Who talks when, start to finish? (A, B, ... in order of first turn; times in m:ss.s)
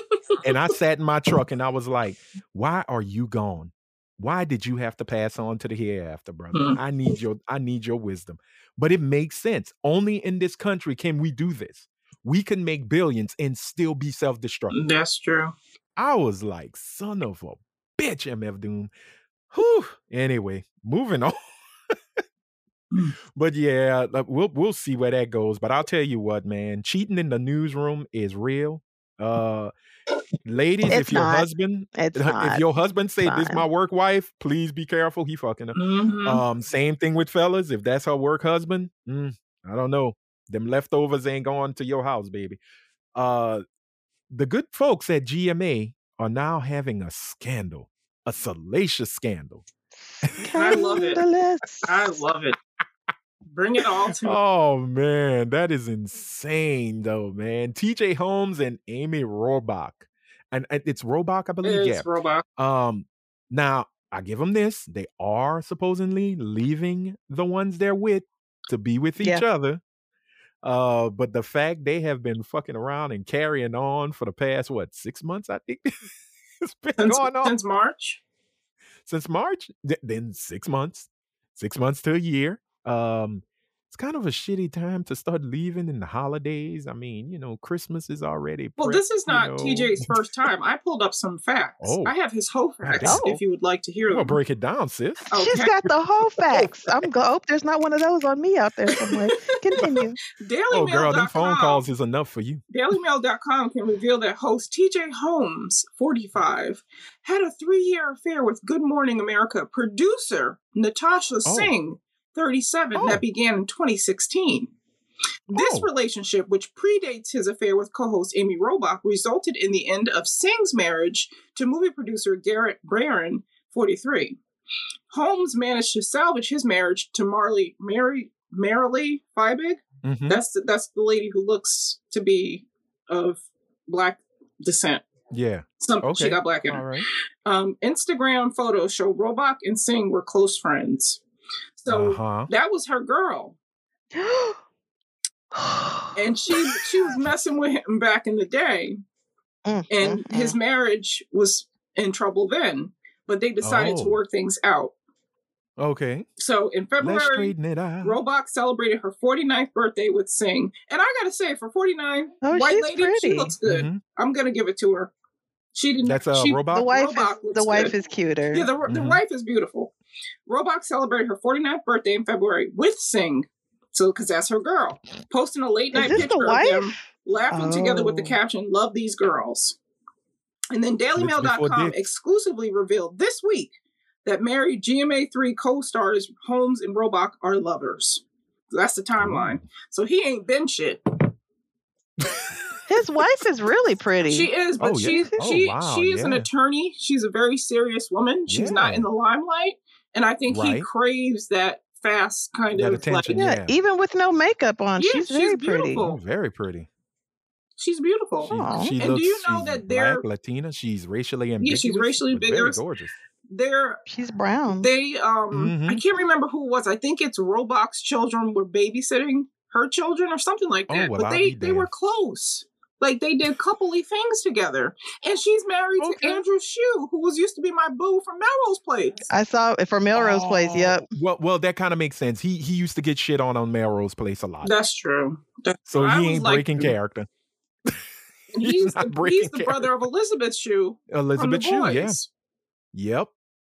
0:00.4-0:14.7 A
0:06.5-0:06.8 B
0:14.7-0:15.5 B
0:16.0-0:18.9 A
0:19.5-0:21.4 A
0:23.3-0:29.7 A
0:30.4-0:42.6 A
0:30.9-0:32.6 C
0:33.2-0:33.6 C
0:35.7-0:36.4 B
0:43.1-0:43.6 A
0:44.3-0:49.6 A
0:50.2-0:50.9 A
0:50.3-0:51.9 C
0:50.5-0:51.2 B
0:51.8-0:52.6 B
0:53.5-0:54.4 B
0:54.2-1:09.8 A
1:01.6-1:02.4 B
1:10.6-1:15.9 A
1:16.6-1:17.5 A
1:17.0-1:18.2 B
1:19.0-1:30.1 A
1:28.8-1:34.4 B
1:31.8-1:32.1 A
1:32.8-1:33.2 A
1:33.0-1:33.4 C
1:34.1-1:35.3 A
1:35.3-1:35.7 B
1:35.3-1:40.2 C
1:38.9-1:39.3 B
1:40.4-1:41.8 B
1:40.7-1:42.6 A
1:42.7-1:54.7 B
1:51.4-1:51.7 A
1:52.9-1:53.2 A
1:55.5-2:04.4 B
1:55.5-1:55.9 A
2:05.1-2:15.0 B
2:10.0-2:10.4 A
2:15.3-2:17.0 A
2:15.8-2:16.9 B
2:17.4-2:21.2 B
2:21.8-2:23.6 B
2:21.9-2:22.5 A
2:24.1-2:24.6 C
2:25.5-2:27.1 C
2:26.2-2:29.0 B
2:29.6-2:30.6 C
2:29.9-2:34.9 B
2:33.6-2:34.2 A
2:35.8-2:36.2 A
2:36.4-2:45.1 B
2:37.0-2:38.2 A
2:42.4-2:43.5 C
2:43.6-2:44.0 A
2:45.7-2:47.9 B
2:46.0-2:46.9 A
2:46.7-2:48.7 C
2:48.5-2:49.9 B
2:48.9-2:49.2 A
2:50.5-2:59.8 B
2:55.9-2:58.4 C
3:00.7-3:03.7 B
3:01.2-3:02.0 A
3:04.2-3:11.0 B
3:09.2-3:09.6 A
3:12.2-3:12.5 A
3:12.9-3:14.5 C
3:14.3-3:23.3 B
3:14.8-3:16.5 A
3:15.0-3:15.3 C
3:18.5-3:19.1 A
3:20.5-3:20.9 A
3:22.7-3:23.7 A
3:23.3-3:26.0 C
3:25.0-3:26.2 B
3:26.0-3:26.9 A
3:27.8-3:30.2 B
3:28.5-3:33.1 A
3:28.5-3:28.9 C
3:31.6-3:32.8 B
3:33.5-3:34.0 B
3:34.1-3:34.9 C
3:34.8-3:49.2 B
3:35.5-3:36.0 A
3:40.9-3:41.9 A
3:46.0-3:46.4 A
3:49.3-3:51.0 C
3:50.1-3:54.7 A
3:54.6-3:56.9 B
3:55.9-3:57.3 A
3:58.5-4:02.3 B
3:58.6-4:00.0 A
4:01.1-4:02.2 A
4:02.9-4:03.3 A